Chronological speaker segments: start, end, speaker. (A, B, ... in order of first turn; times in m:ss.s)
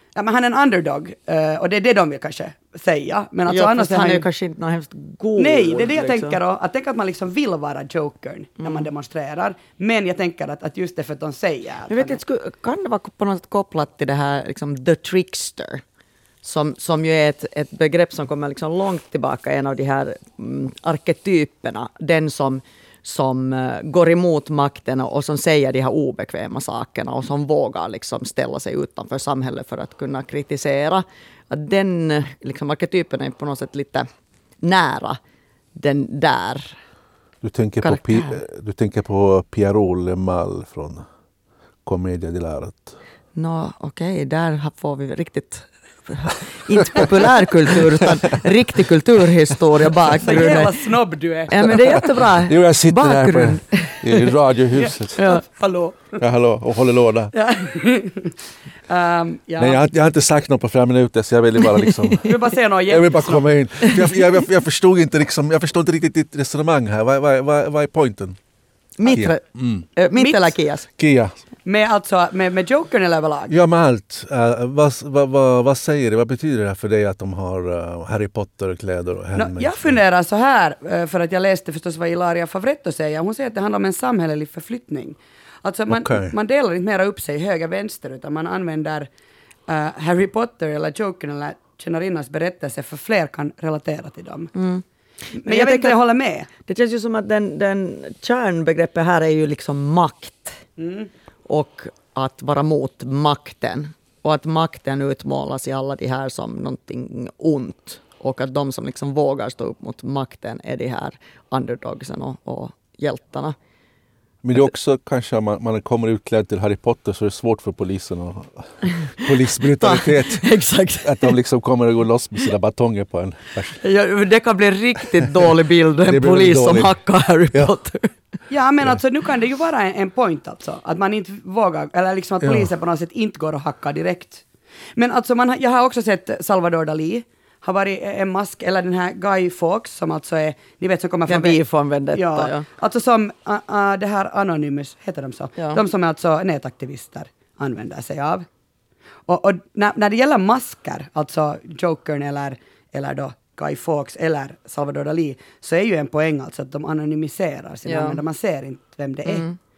0:00.2-0:04.3 A
0:03.5-0:06.4 B
0:05.4-0:12.2 A
0:08.6-0:08.9 B
0:11.9-0:15.8 B
0:16.4-0:34.1 B
0:34.6-0:35.2 B
0:35.8-0:36.8 B
0:37.4-0:41.0 C
0:37.8-0:38.3 B
0:41.8-0:43.0 C
0:43.4-0:50.7 B
0:50.2-0:52.0 A
0:51.5-0:54.3 B
0:51.6-0:55.2 C
0:54.8-0:56.2 A
0:55.2-0:55.4 B
0:56.2-0:57.3 C
0:57.3-0:58.4 A
0:58.9-0:59.9 A
0:59.6-1:02.3 C
1:02.2-1:03.9 A
1:02.9-1:08.4 C
1:09.0-1:10.9 B
1:09.1-1:09.9 C
1:10.2-1:10.6 A
1:11.0-1:11.4 C
1:11.6-1:13.6 A
1:13.5-1:20.0 C
1:19.4-1:29.1 A
1:25.9-1:26.3 C
1:29.7-1:34.5 A
1:34.6-1:36.0 B
1:35.4-1:36.5 A
1:36.7-1:40.6 B
1:40.8-1:41.1 A
1:41.5-1:53.6 B
1:54.4-2:03.8 C
1:59.8-2:01.3 B
2:03.8-2:08.1 B
2:06.1-2:07.0 C
2:08.5-2:14.4 A
2:12.4-2:12.7 C
2:15.0-2:21.6 A
2:21.3-2:22.7 B
2:22.1-2:28.5 A
2:25.6-2:25.8 B
2:29.3-2:39.5 A
2:37.9-2:38.2 B
2:39.3-2:39.6 B